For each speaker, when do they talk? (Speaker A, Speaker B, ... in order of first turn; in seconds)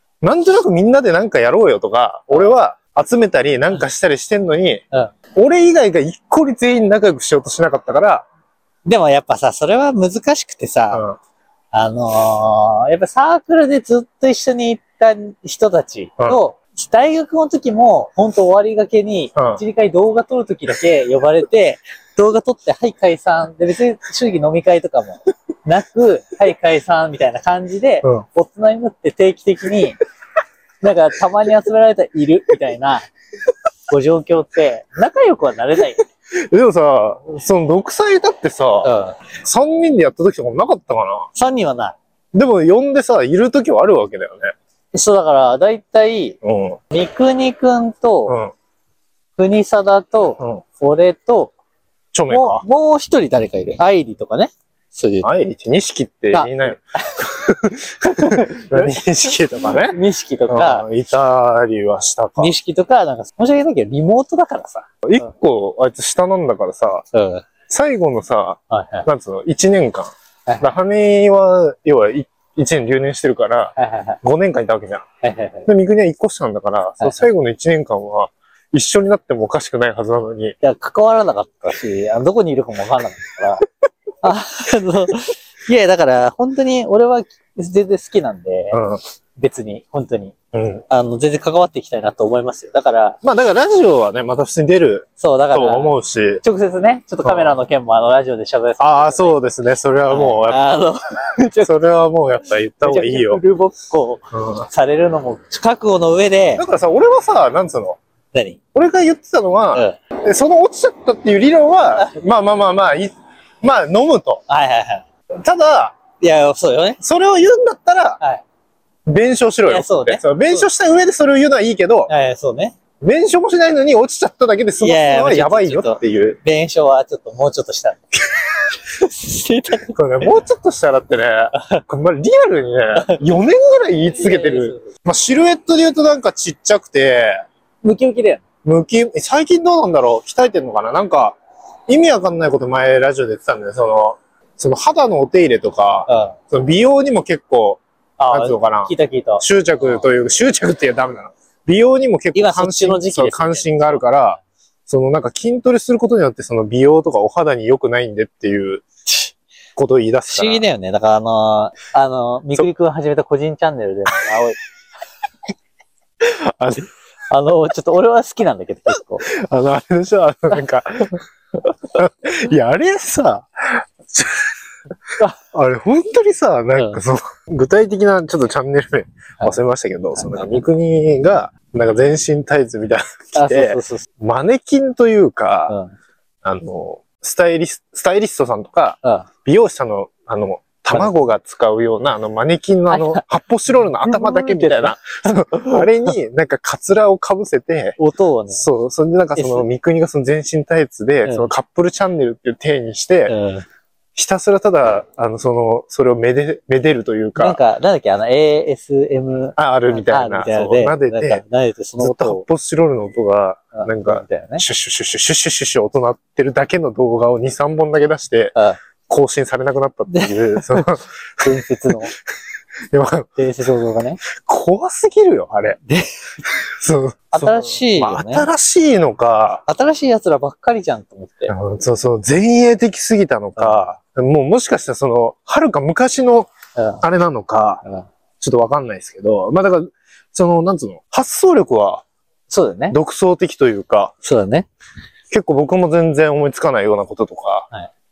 Speaker A: 0.2-4.8, 5.3-8.3, 10.9-11.2, 19.4-19.6, 36.4-41.3, 42.3-44.5, 46.4-46.8, 48.3-48.5, 52.1-52.6, 55.2-60.0, 60.5-62.5, 65.0-67.1, 67.7-75.0, 75.7-80.6, 88.7-89.0, 90.5-90.8, 93.2-96.4, 97.2-97.6, 98.8-100.6, 101.6-103.4, 104.3-104.7, 106.6-108.0, 108.7-114.4, 115.4-116.0, 117.0-118.2, 119.1-122.1, 123.0-126.4, 129.9-137.4, 138.7-158.9, 159.8-160.7, 166.2-166.9, 169.2-171.2, 171.9-174.5, 175.5-185.8, 186.4-198.0, 198.5-203.3, 204.2-207.6, 209.6-211.4, 212.0-218.6, 219.1-222.0, 222.9-223.3, 224.3-225.8, 226.4-229.6, 231.5-236.5, 237.0-237.8, 238.4-242.0, 242.9-244.1, 245.3-247.7
Speaker B: 8.8-11.0, 11.7-30.0, 30.8-33.1, 33.9-36.0, 38.8-39.2, 41.4-42.0, 44.9-46.4, 46.9-48.4, 49.4-51.5, 52.3-55.3, 56.3-57.2, 58.0-59.0, 59.5-60.9, 62.4-64.9, 67.1-67.5, 68.7-69.1, 73.8-74.2, 75.2-75.7, 77.0-77.3, 80.6-83.7, 84.2-88.8, 89.4-90.3, 90.9-93.2, 95.2-99.4, 100.1-101.7, 102.8-106.6, 108.3-108.6, 109.7-110.0, 114.5-115.0, 116.2-117.0, 119.7-120.7, 122.1-122.8, 124.8-128.0, 128.8-130.0, 134.2-134.9, 137.8-138.4, 146.1-146.4, 148.2-150.1, 152.3-154.1, 160.3-164.6, 167.3-169.3, 176.8-177.0, 180.2-180.6, 183.4-184.1, 185.7-185.9, 192.9-193.3, 194.0-195.9, 198.0-198.7, 199.4-199.7, 201.2-201.5, 203.3-203.7, 207.4-212.5, 213.7-214.7, 220.1-220.9, 221.4-222.1, 223.4-224.2, 225.9-226.3, 227.3-228.5, 229.7-231.6, 233.6-233.8, 236.8-237.0, 242.5-243.0, 244.2-244.7